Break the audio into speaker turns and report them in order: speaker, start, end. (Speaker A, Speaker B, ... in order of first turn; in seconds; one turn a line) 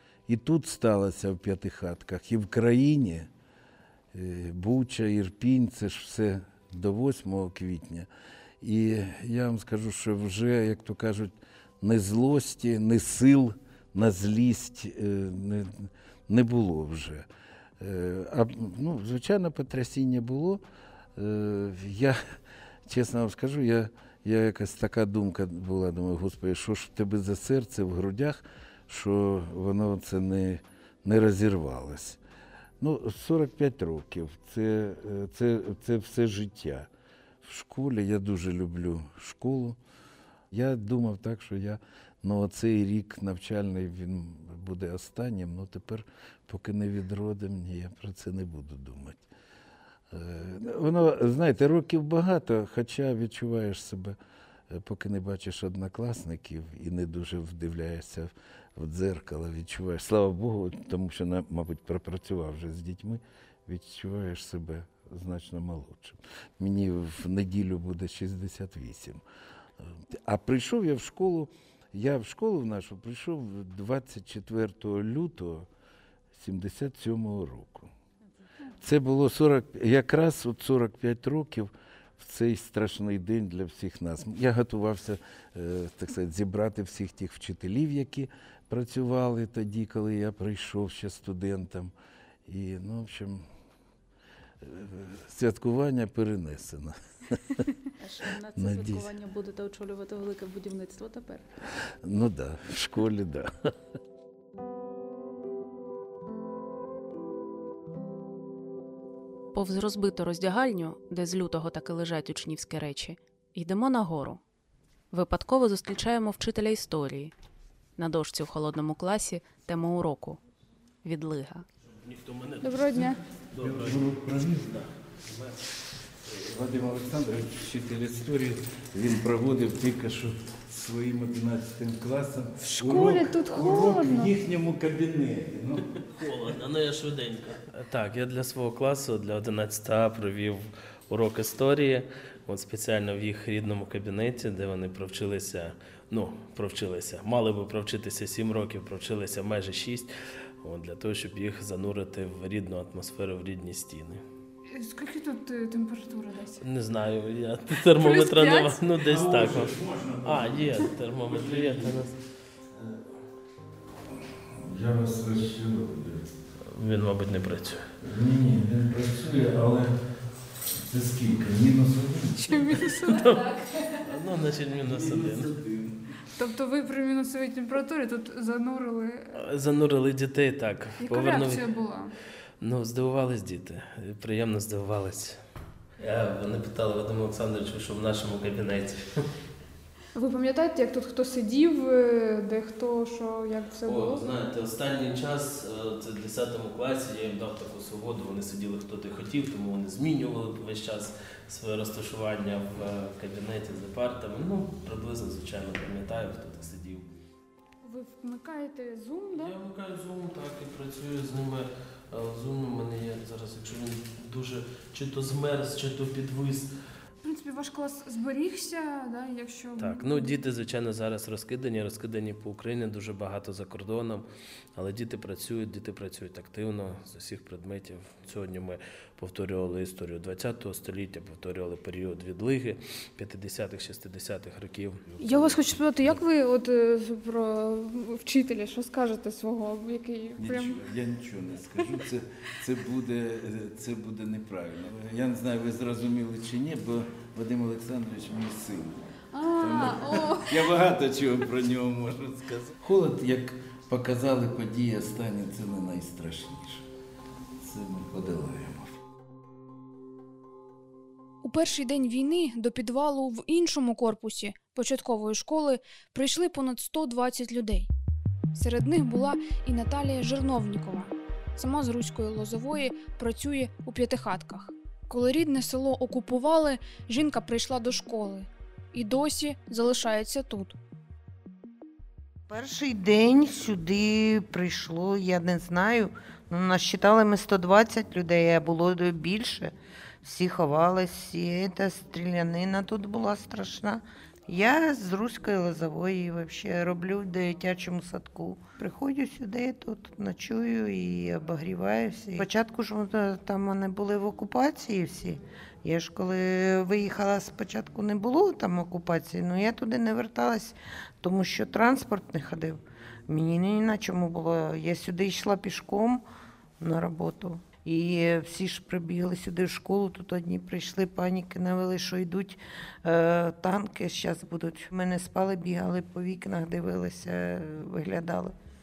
Speaker A: 0.3-3.3
Speaker A: 4.1-8.1
Speaker A: 8.6-17.3
Speaker A: 17.8-20.6
Speaker A: 21.1-22.2
Speaker A: 22.9-32.2
Speaker A: 32.8-36.9
Speaker A: 37.4-39.8
Speaker A: 40.5-49.2
Speaker A: 50.1-54.2
Speaker A: 54.7-69.2
Speaker A: 69.9-75.7
Speaker A: 76.3-77.9
Speaker A: 78.8-91.9
Speaker A: 92.5-93.5
Speaker A: 94.6-97.7
Speaker B: 98.0-101.5
Speaker A: 98.5-99.1
Speaker A: 102.0-103.7
Speaker C: 109.5-114.4
Speaker C: 115.1-117.3
Speaker C: 118.0-120.4
Speaker C: 121.0-121.7
Speaker D: 122.0-124.1
Speaker E: 122.6-123.2
Speaker A: 123.5-124.9
Speaker D: 124.7-125.6
Speaker A: 126.3-135.9
Speaker E: 132.6-134.3
Speaker D: 135.9-154.2
Speaker E: 154.7-156.6
Speaker D: 156.6-162.2
Speaker E: 157.8-158.9
Speaker A: 159.0-162.1
Speaker A: 164.5-166.3
Speaker D: 166.6-167.9
Speaker A: 168.0-170.0
Speaker A: 170.7-172.8
Speaker E: 172.4-173.6
Speaker D: 173.0-175.5
Speaker A: 174.8-176.1
Speaker E: 176.3-179.4
Speaker D: 179.3-181.7
Speaker E: 181.0-182.1
Speaker D: 182.6-185.4
Speaker D: 186.0-189.3
Speaker E: 190.1-194.2
Speaker D: 193.8-207.1
Speaker E: 207.8-209.6
Speaker D: 209.3-216.7
Speaker E: 217.2-220.4
Speaker D: 219.8-235.1
Speaker E: 235.2-240.8
Speaker A: 235.2-235.6
Speaker A: 240.4-249.0
Speaker E: 249.3-250.7
Speaker A: 249.6-256.9
Speaker A: 257.6-259.0
Speaker F: 261.4-267.9
Speaker F: 268.5-280.8
Speaker G: 282.5-316.2
Speaker G: 316.8-328.5